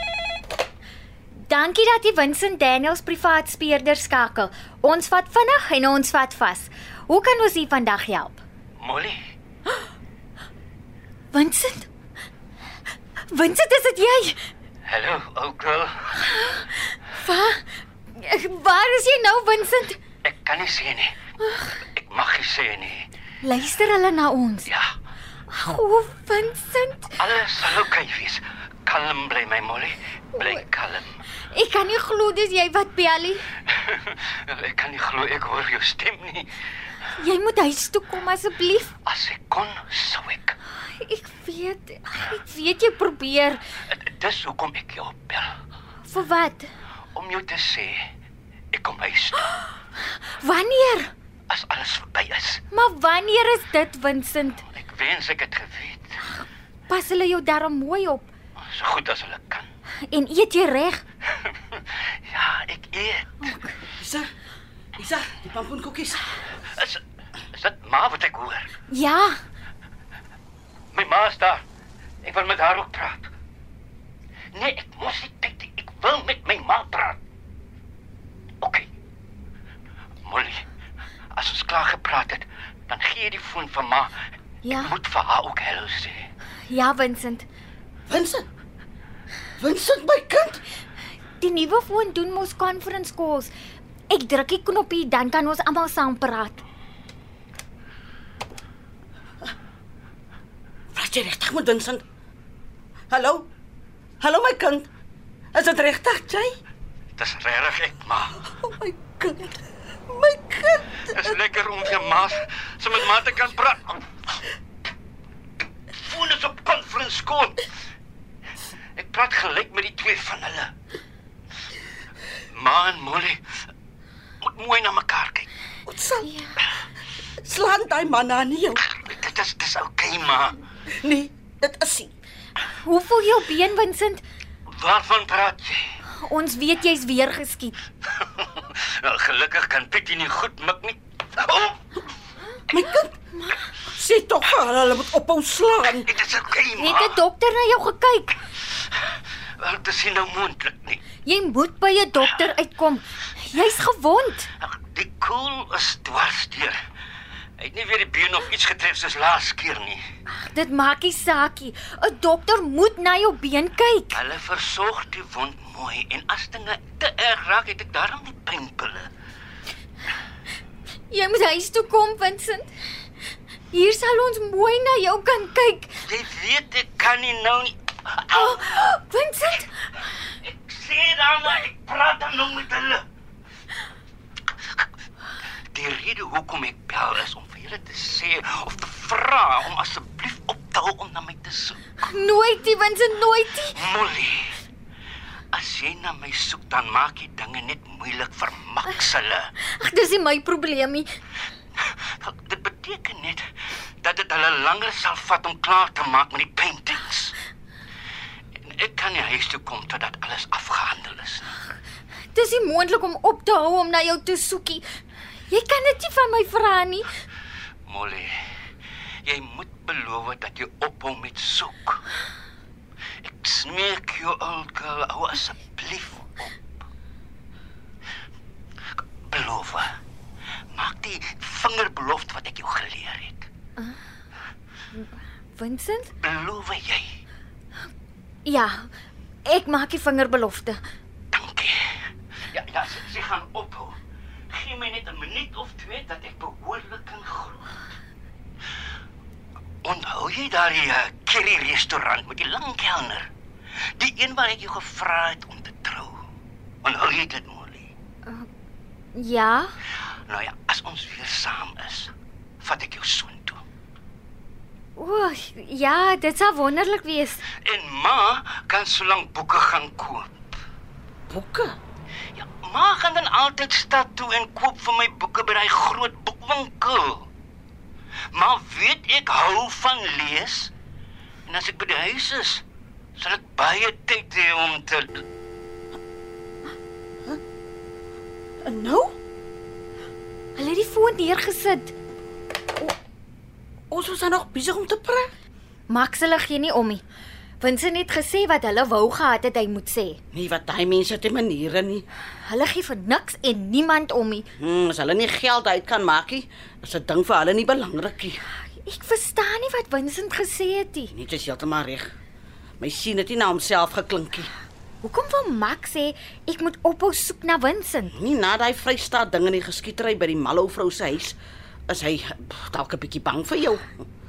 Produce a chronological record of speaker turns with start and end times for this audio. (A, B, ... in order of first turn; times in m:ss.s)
0:01.4-0:08.4 A
0:08.8-0:09.2 B
0:11.3-0:11.9 A
0:13.3-0:14.4 A
0:14.8-0:16.3 B
0:16.3-0:20.0 A
0:20.2-0:21.2 B
0:21.4-0:21.8 A
0:21.9-0:23.1 B
0:23.4-0:24.7 A
0:25.5-0:27.2 A
0:27.2-0:31.2 B
0:31.4-0:33.4 A
0:33.7-0:36.5 B
0:37.2-0:38.9 A
0:39.0-0:40.6 B
0:40.8-0:43.6 A
0:43.9-0:45.5 B
0:46.0-0:46.7 A
0:47.1-0:48.0 B
0:48.7-0:49.5 B
0:50.0-0:51.1 A
0:51.5-0:52.6 B
0:52.7-0:54.6 A
0:54.7-0:56.2 B
0:56.9-0:58.3 A
0:58.6-0:59.7 B
1:00.1-1:01.0 A
1:01.5-1:03.6 B
1:04.0-1:04.3 C
1:05.0-1:06.3 C
1:06.8-1:08.7 B
1:08.9-1:09.4 A
1:10.9-1:11.6 B
1:12.2-1:13.3 B
1:14.5-1:17.2 B
1:18.6-1:18.9 B
1:20.2-1:20.6 B
1:21.3-1:24.2 B
1:24.6-1:24.9 A
1:24.8-1:26.3 B
1:26.7-1:27.5 A
1:28.1-1:28.5 C
1:29.6-1:30.6 C
1:31.4-1:33.5 A
1:34.1-1:36.6 A
1:40.9-1:42.0 C
1:43.1-1:43.5 C
1:44.2-1:44.9 C
1:45.5-1:46.5 C
1:47.2-1:48.4 B
1:48.4-1:51.3 C
1:51.1-1:54.1 B
1:55.9-1:57.7 B
1:59.0-2:00.7 B
2:02.5-2:03.4 B
2:04.4-2:05.5 B
2:05.9-2:06.3 C
2:06.2-2:06.5 A
2:07.4-2:08.8 C
2:08.9-2:10.6 B
2:10.9-2:12.1 C
2:12.8-2:14.2 A
2:14.7-2:15.9 B
2:16.1-2:17.8 A
2:18.2-2:21.9 B
2:22.7-2:23.2 C
2:23.9-2:26.1 C
2:26.0-2:27.2 B
2:26.8-2:28.4 A
2:29.6-2:31.0 B
2:31.2-2:34.5 A
2:34.6-2:36.8 B
2:37.6-2:40.0 B
2:40.3-2:44.2 A
2:44.1-2:49.1 B
2:51.1-2:52.7 A
2:53.7-2:56.0 A
2:56.0-2:58.7 B
2:58.3-2:59.7 A
3:00.4-3:03.0 B
3:05.7-3:11.8 B
3:12.0-3:13.8 A
3:13.7-3:14.6 B
3:15.5-3:19.5 B
3:19.6-3:21.1 A
3:21.8-3:23.5 B
3:24.0-3:27.4 B
3:28.6-3:31.6 B
3:32.3-3:34.8 A
3:35.5-3:37.1 A
3:37.9-3:38.4 B
3:39.2-3:42.0 B
3:43.2-3:46.5 B
3:49.3-3:50.0 B
3:50.7-3:53.5 B
3:54.9-3:56.1 A
3:56.2-3:57.2 B
3:58.4-3:58.9 A
3:59.4-4:00.8 A
4:01.3-4:02.0 B
4:02.5-4:04.0 B
4:04.5-4:07.7 B
4:09.8-4:13.3 B
4:14.0-4:16.2 B
4:16.8-4:17.9 B
4:19.2-4:19.7 A
4:20.3-4:23.6 B
4:25.0-4:27.4 A
4:27.6-4:30.3 B
4:31.3-4:31.8 C
4:32.4-4:37.3 B
4:38.3-4:40.7 B
4:41.5-4:42.6 B
4:43.2-4:45.2 B
4:48.6-4:49.2 C
4:50.6-4:52.0 A
4:53.9-4:55.3 C
4:55.9-4:57.0 A
4:57.6-5:00.2 A
5:00.3-5:02.1 C
5:02.4-5:04.5 A
5:04.6-5:08.4 C
5:08.7-5:11.1 A
5:11.1-5:12.1 C
5:12.8-5:14.5 C
5:15.0-5:18.2 A
5:18.1-5:21.4 C
5:21.9-5:24.0 C